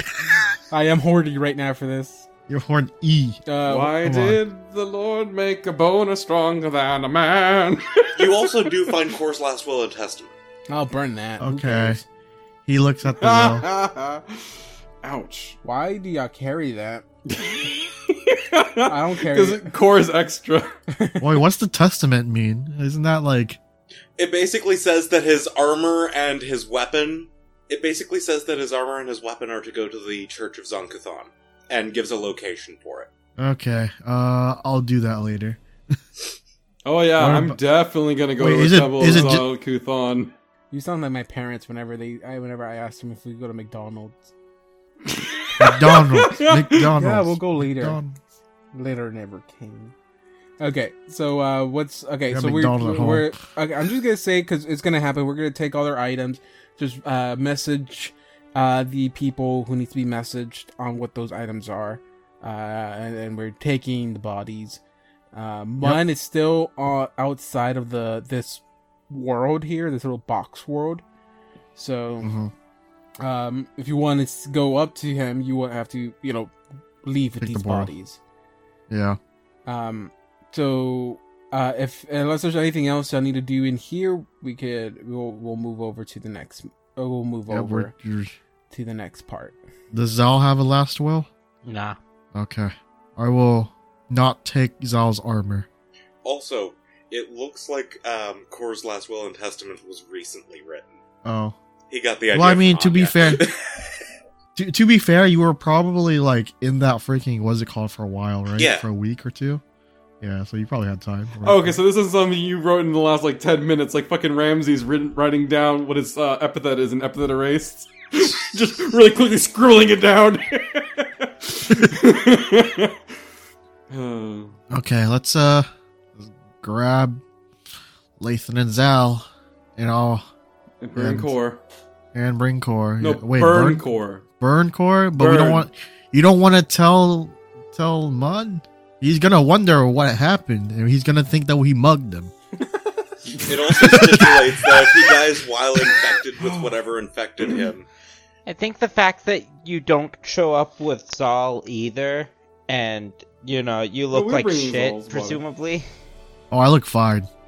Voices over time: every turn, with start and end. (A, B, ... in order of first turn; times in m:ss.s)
0:00.7-0:02.3 A
0:02.5-0:03.4 B
0:03.5-0:04.0 A
0:03.7-0:09.0 C
0:04.0-0:04.4 B
0:08.2-0:10.3 D
0:10.7-0:12.0 A
0:11.4-0:12.0 B
0:12.7-0:13.7 B
0:13.1-0:14.5 C
0:15.0-0:15.6 C
0:15.6-0:17.0 A
0:17.3-0:20.7 C
0:18.8-0:19.7 A
0:20.9-0:21.3 A
0:21.2-0:23.6 B
0:24.2-0:33.1 D
0:33.4-0:35.6 B
0:36.8-0:40.3 C
0:37.2-0:37.6 B
0:38.4-0:39.5 B
0:40.7-0:44.3 A
0:45.1-0:46.9 C
0:45.6-0:48.2 B
0:47.0-0:48.0 A
0:48.7-0:49.9 A
0:50.6-1:04.8 A
0:52.3-0:53.4 B
1:05.3-1:11.0 A
1:11.8-1:12.3 A
1:12.2-1:12.5 B
1:13.2-1:18.2 A
1:17.4-1:17.9 B
1:18.9-1:19.2 B
1:19.7-1:27.9 A
1:27.5-1:28.4 B
1:28.7-1:29.6 A
1:29.9-1:31.3 B
1:31.6-1:32.0 E
1:32.3-1:35.7 B
1:36.2-1:41.0 D
1:41.2-1:41.6 B
1:41.9-1:43.7 D
1:42.3-1:43.4 B
1:44.6-1:49.6 B
1:48.6-1:48.8 D
1:50.2-1:51.8 B
1:51.4-2:03.0 C
2:03.9-2:04.6 C
2:04.7-2:07.2 B
2:08.2-2:10.2 B
2:10.8-2:11.6 C
2:11.0-2:11.3 B
2:12.1-2:13.8 B
2:13.0-2:14.2 C
2:14.4-2:22.3 B
2:15.2-2:15.7 C
2:23.3-2:24.4 C
2:23.5-2:27.9 D
2:23.9-2:24.3 B
2:26.4-2:26.8 C
2:28.5-2:35.9 E
2:34.1-2:35.4 C
2:36.5-2:37.3 B